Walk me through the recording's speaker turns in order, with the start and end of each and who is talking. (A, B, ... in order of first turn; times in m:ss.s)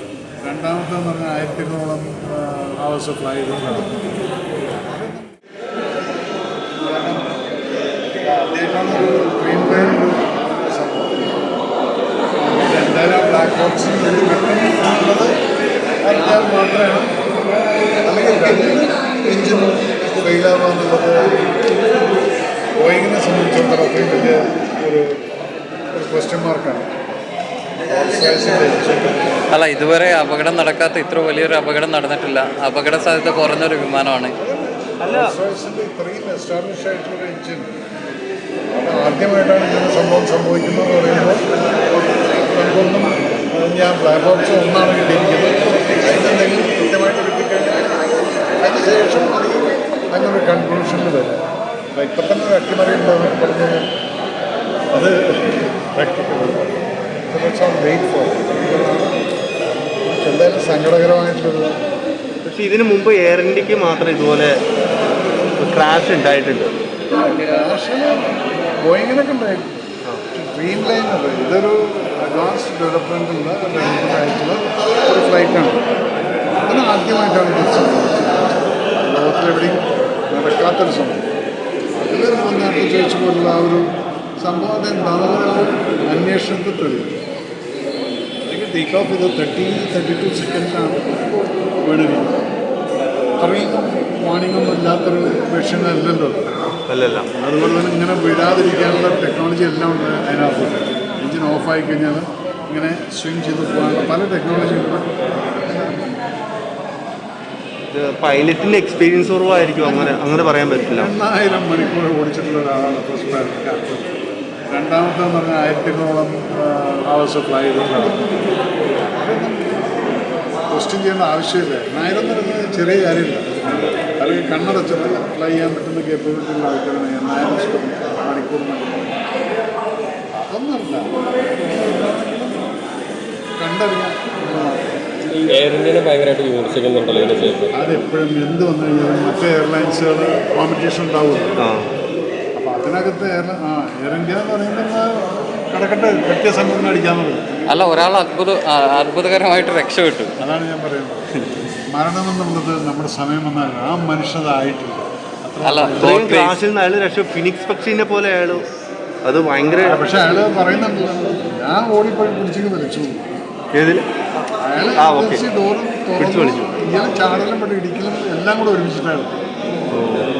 0:00.4-0:04.0 A
0:04.8-0:05.4 A
0:06.8-0:07.4 A
0:08.3-0:11.4 A
0:12.4-0:15.4 A
0:16.0-0:17.1 A
0:18.0-0:21.7 A
0:22.8-0:25.2 A
0:25.9-0:26.9 A
0:27.9-0:29.4 A
0:29.5-0:34.4 B
0:34.4-0:37.7 A
0:35.0-0:35.3 C
0:38.7-0:41.4 A
0:42.4-0:47.8 A
0:48.6-0:51.4 A
0:52.0-0:53.9 A
0:54.9-0:56.8 A
0:57.3-0:59.2 A
1:00.1-1:01.8 A
1:02.4-1:04.6 C
1:05.6-1:06.7 C
1:07.1-1:08.2 A
1:08.8-1:15.8 A
1:16.7-1:21.2 A
1:22.0-1:23.9 A
1:24.4-1:27.2 A
1:28.5-1:31.3 A
1:31.8-1:32.4 A
1:33.4-1:36.5 A
1:36.9-1:37.3 C
1:37.4-1:46.1 A
1:47.9-1:51.1 C
1:49.8-1:50.3 A
1:50.9-1:54.1 A
1:54.7-1:58.2 A
1:59.1-2:09.1 A
2:10.4-2:12.8 A
2:13.6-2:15.6 A
2:15.5-2:17.7 D
2:17.7-2:21.6 A
2:21.6-2:21.9 C
2:22.6-2:27.7 A
2:27.7-2:30.4 B
2:30.4-2:31.3 A
2:31.9-2:36.2 A
2:35.6-2:36.6 B
2:36.0-2:38.6 C
2:39.2-2:40.0 C
2:39.8-2:43.2 A
2:43.8-2:44.0 C
2:44.6-2:49.4 A
2:45.0-2:45.4 C
2:46.2-2:46.7 C
2:49.9-2:50.3 C